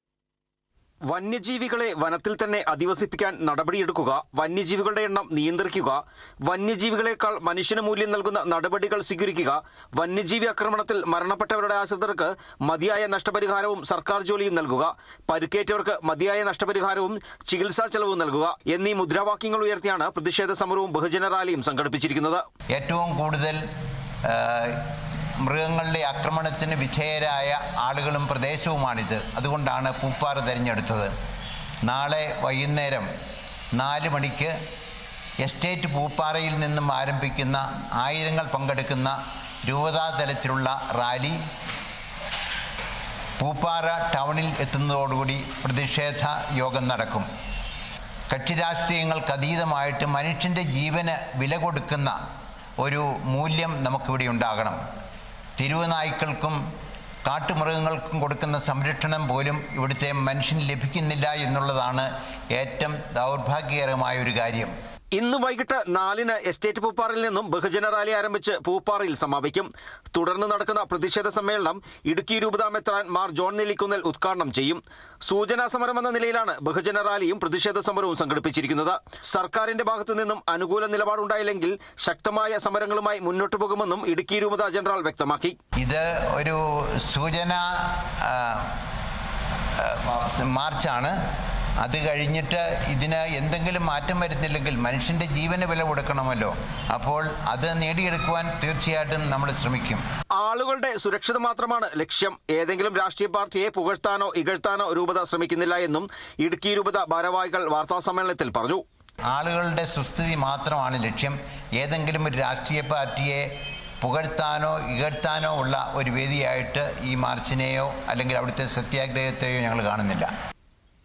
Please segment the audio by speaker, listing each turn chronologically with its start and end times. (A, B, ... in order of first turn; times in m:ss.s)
0:01.1-0:22.4 A
0:22.7-0:23.6 B
0:24.2-0:24.8 B
0:25.4-0:31.1 B
0:31.8-0:33.1 B
0:33.7-0:34.5 B
0:35.4-0:41.4 B
0:43.4-0:47.3 B
0:48.3-0:52.1 B
0:52.8-0:54.8 B
0:55.6-0:56.6 B
0:57.2-1:04.7 B
1:05.1-1:25.6 A
1:25.8-1:28.7 B
1:29.8-1:31.1 B
1:31.8-1:40.0 B
1:40.4-1:48.8 A
1:49.3-1:53.4 B
1:54.0-2:00.3 B